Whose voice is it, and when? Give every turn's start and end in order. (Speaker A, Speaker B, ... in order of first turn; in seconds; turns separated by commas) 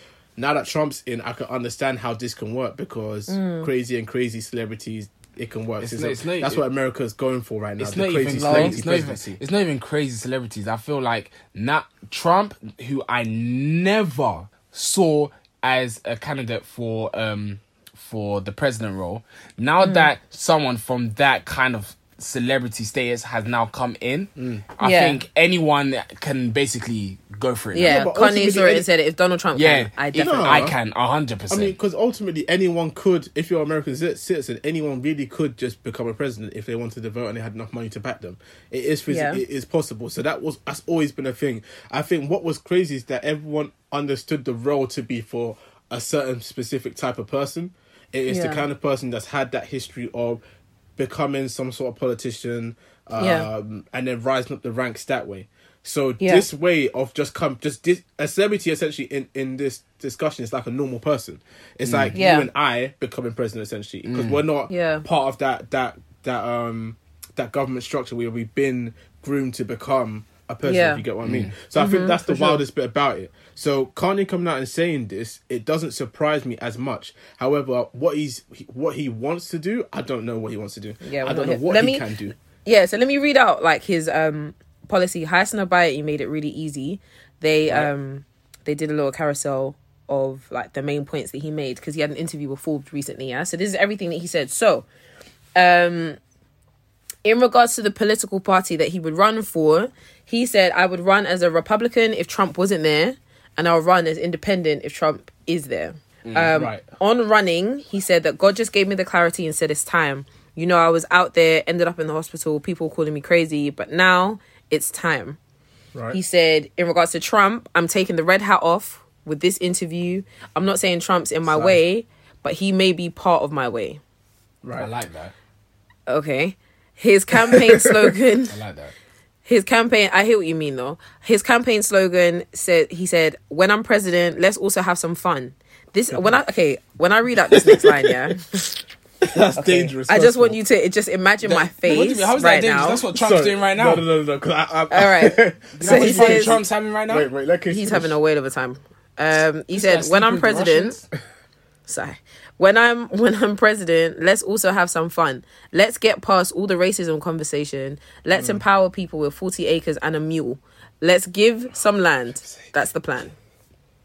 Speaker A: 0.4-9.4, Speaker B: 3.3-3.7, Speaker C: 5.8-6.6, Speaker C: 7.8-28.0, Speaker B: 8.4-8.8, Speaker B: 19.8-20.1, Speaker A: 24.4-24.6, Speaker B: 24.8-25.2, Speaker B: 27.7-30.7, Speaker A: 27.8-28.9, Speaker C: 29.6-31.8, Speaker A: 30.1-30.8, Speaker A: 31.5-50.4, Speaker B: 39.1-39.4, Speaker B: 48.3-48.6, Speaker A: 51.0-82.3, Speaker B: 53.2-53.5, Speaker B: 56.2-56.5, Speaker C: 61.9-62.2, Speaker B: 62.1-62.5, Speaker C: 64.1-64.4, Speaker B: 64.7-65.1, Speaker B: 70.7-71.0, Speaker C: 71.2-71.5, Speaker B: 71.8-72.6, Speaker B: 81.0-82.1, Speaker B: 82.7-94.9, Speaker B: 95.6-96.2, Speaker B: 97.2-115.4, Speaker C: 106.2-106.5, Speaker A: 106.5-106.8, Speaker B: 116.1-124.0, Speaker A: 121.5-121.8, Speaker A: 124.6-124.9, Speaker C: 124.8-125.3, Speaker B: 126.1-128.6, Speaker A: 127.5-128.0, Speaker C: 128.5-128.9, Speaker B: 129.5-138.8, Speaker A: 136.1-136.4, Speaker A: 137.5-138.1, Speaker A: 139.2-140.6, Speaker B: 139.6-143.0, Speaker C: 141.4-144.1, Speaker A: 143.1-148.2, Speaker B: 144.9-146.6, Speaker C: 145.8-147.3, Speaker B: 147.7-151.0, Speaker C: 149.7-151.1, Speaker B: 151.9-163.3, Speaker A: 158.3-158.6